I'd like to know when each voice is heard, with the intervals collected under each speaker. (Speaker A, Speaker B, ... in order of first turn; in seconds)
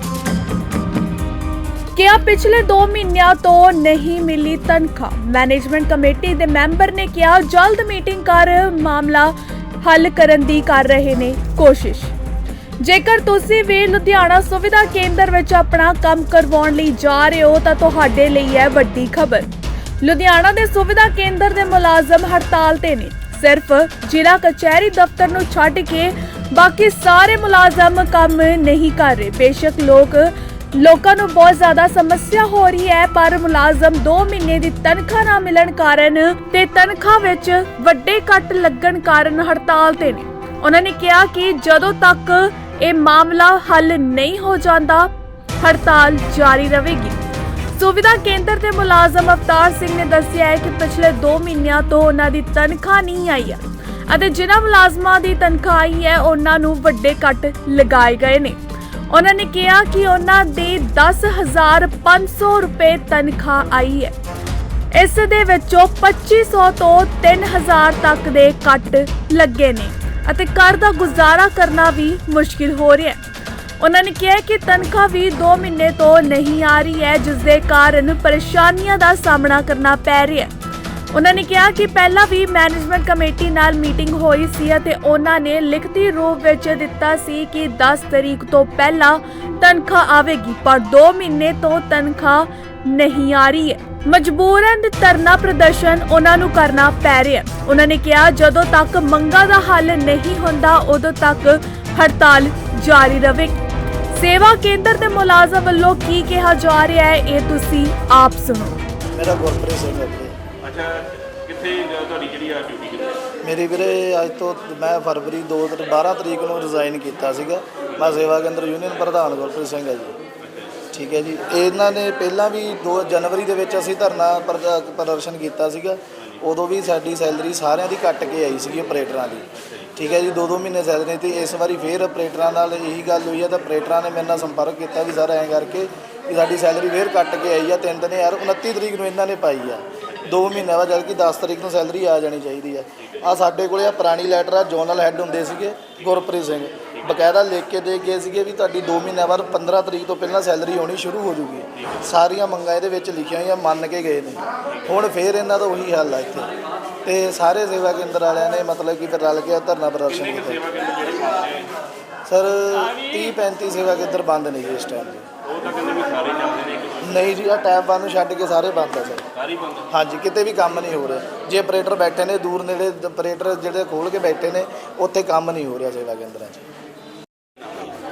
Speaker A: 1.9-12.1, 12.8-19.5, 20.0-47.2, 47.7-58.6, 59.1-64.2, 64.9-73.2, 73.8-80.5, 81.1-103.6, 104.1-108.8
Speaker B: 109.1-110.3, 113.4-120.2, 120.9-156.5, 157.0-160.6, 162.3-165.2, 167.0-169.3, 169.9-176.6
Speaker C: 110.6-113.2, 120.4-120.8, 129.6-129.9, 160.1-161.7, 165.4-167.3, 169.3-169.9, 177.6-177.9